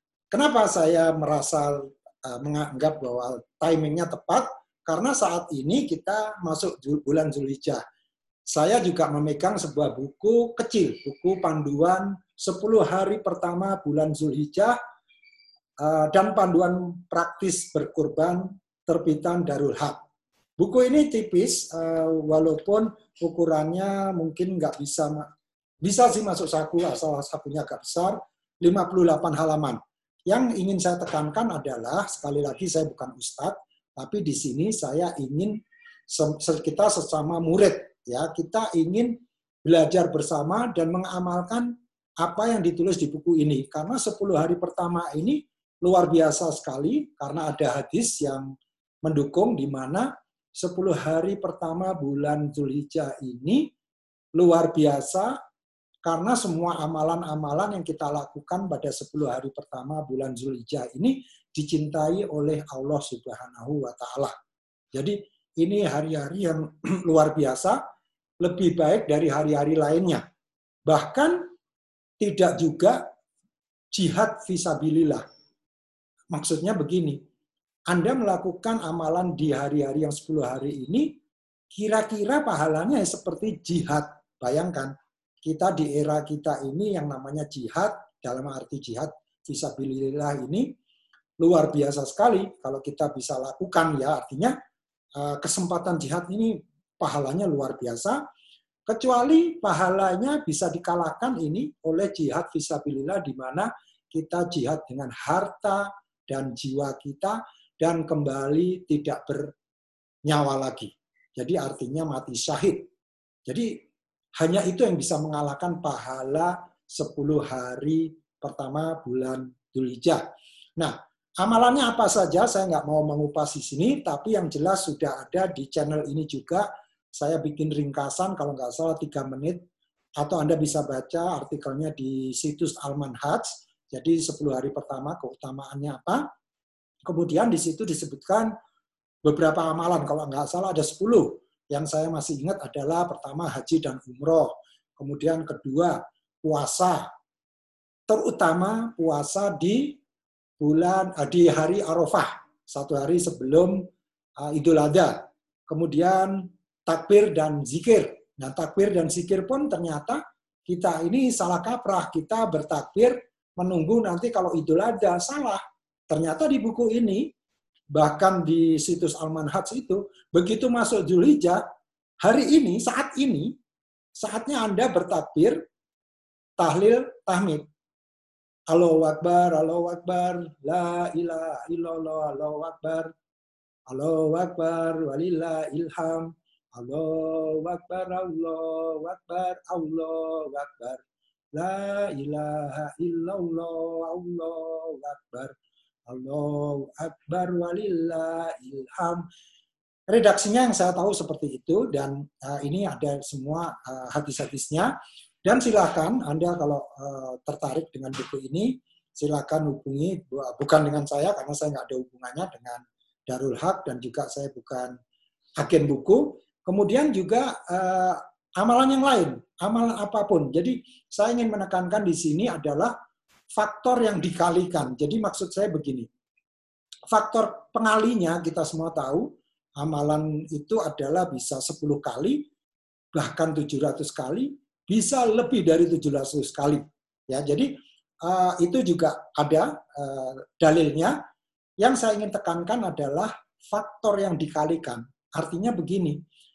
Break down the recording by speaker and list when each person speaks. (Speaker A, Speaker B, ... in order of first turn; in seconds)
Speaker A: 0.3-7.8, 8.5-14.7, 15.8-20.0, 20.6-25.2, 25.8-35.5, 36.1-41.7, 42.2-48.4, 49.0-53.6, 54.4-55.3, 56.0-64.3, 64.9-67.8, 68.4-70.2, 70.9-71.4, 72.2-73.0, 73.9-75.2, 76.3-77.2, 77.9-81.1, 81.7-84.9, 85.4-90.7, 91.4-94.5, 95.2-98.2, 98.9-109.5, 110.2-112.8, 114.4-120.2, 120.8-129.6, 130.2-136.2, 137.0-138.5, 139.2-147.1, 148.1-150.0, 150.6-153.8, 154.4-155.2, 155.7-167.2, 167.9-171.6, 172.2-173.5, 174.2-175.6, 176.6-177.6, 178.7-183.1, 183.9-191.0, 191.5-195.5, 196.1-199.2, 200.1-204.9, 205.4-214.9, 215.6-222.9, 223.6-226.1, 227.1-229.2, 229.8-232.4, 233.1-237.7, 238.2-241.1, 241.8-246.2